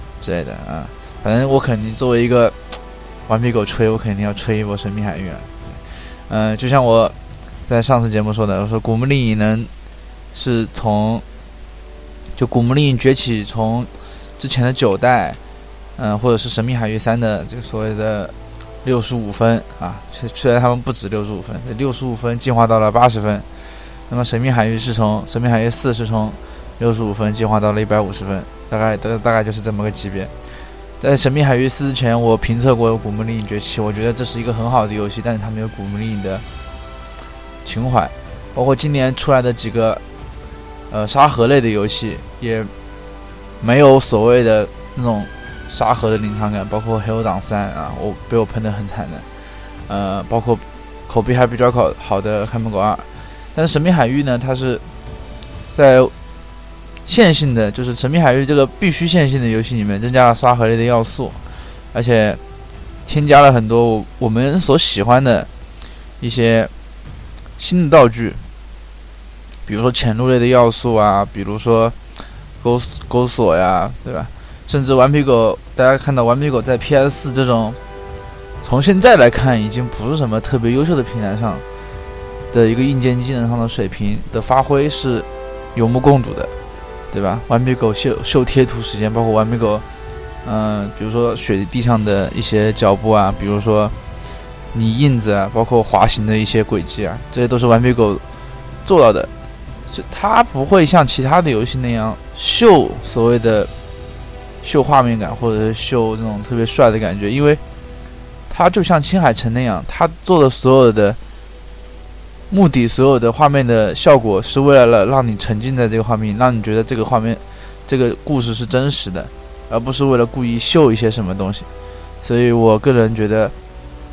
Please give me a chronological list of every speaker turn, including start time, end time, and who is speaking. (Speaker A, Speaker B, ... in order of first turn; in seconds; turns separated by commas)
Speaker A: 0.2-7.1, Speaker A: 7.7-9.7, Speaker A: 10.3-11.2, Speaker A: 12.3-15.4, Speaker A: 16.0-23.5, Speaker A: 24.1-30.3, Speaker A: 31.0-36.4, Speaker A: 37.6-40.0, Speaker A: 40.9-42.7, Speaker A: 43.6-49.2, Speaker A: 49.9-54.8, Speaker A: 55.7-56.1, Speaker A: 57.0-61.4, Speaker A: 61.9-62.4, Speaker A: 63.0-65.5, Speaker A: 66.2-66.7, Speaker A: 67.6-68.4, Speaker A: 69.7-72.0, Speaker A: 72.6-77.8, Speaker A: 78.6-81.6, Speaker A: 82.5-86.5, Speaker A: 87.1-89.8, Speaker A: 90.4-93.9, Speaker A: 94.7-98.2, Speaker A: 98.8-99.3, Speaker A: 99.9-103.7, Speaker A: 104.6-107.6, Speaker A: 108.5-111.2, Speaker A: 112.5-121.7, Speaker A: 122.2-123.5